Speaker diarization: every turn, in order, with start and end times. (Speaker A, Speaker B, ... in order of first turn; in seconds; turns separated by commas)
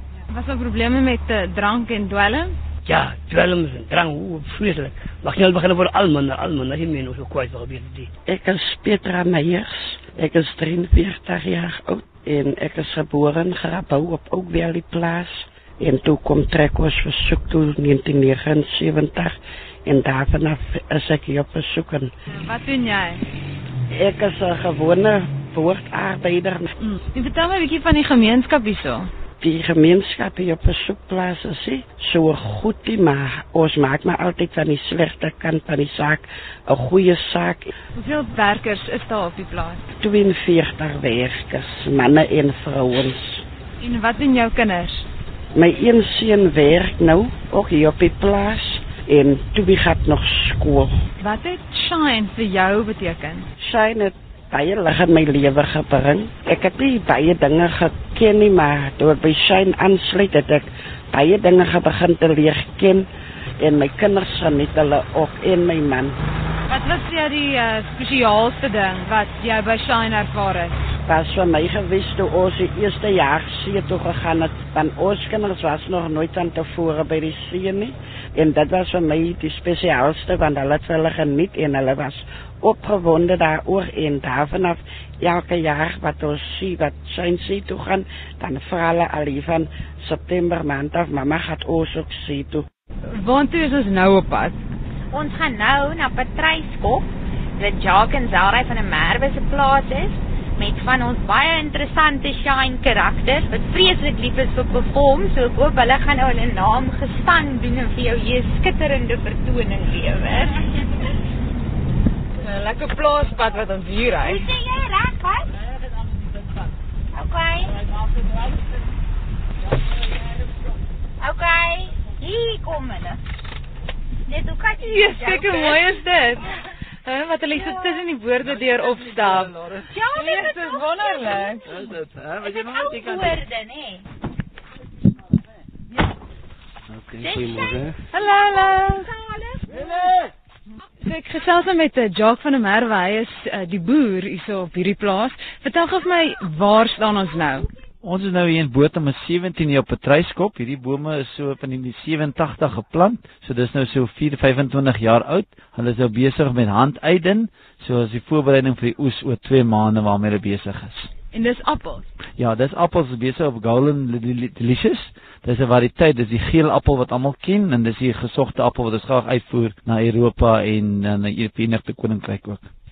Speaker A: 0.3-2.5, Speaker B: 2.9-8.1, Speaker C: 8.3-22.1, Speaker A: 22.4-23.2, Speaker C: 23.9-26.7, Speaker A: 27.1-29.1, Speaker C: 29.4-37.7, Speaker A: 38.0-39.8, Speaker C: 40.0-43.4, Speaker A: 43.8-45.1, Speaker C: 45.5-50.9, Speaker A: 51.2-53.5, Speaker C: 53.6-63.1, Speaker C: 63.6-66.2, Speaker A: 66.7-70.8, Speaker C: 71.1-92.7, Speaker A: 93.1-94.6, Speaker D: 95.1-110.6, Speaker A: 112.4-114.5, Speaker D: 114.2-115.5, Speaker D: 117.1-117.8, Speaker D: 121.2-123.2, Speaker D: 124.3-125.8, Speaker A: 124.8-126.5, Speaker A: 127.0-129.6, Speaker D: 129.9-131.6, Speaker A: 130.1-131.7, Speaker D: 132.4-134.0, Speaker D: 137.2-139.6, Speaker A: 138.1-139.2, Speaker A: 141.0-147.7, Speaker E: 148.0-161.1, Speaker A: 161.3-162.1, Speaker E: 162.4-172.7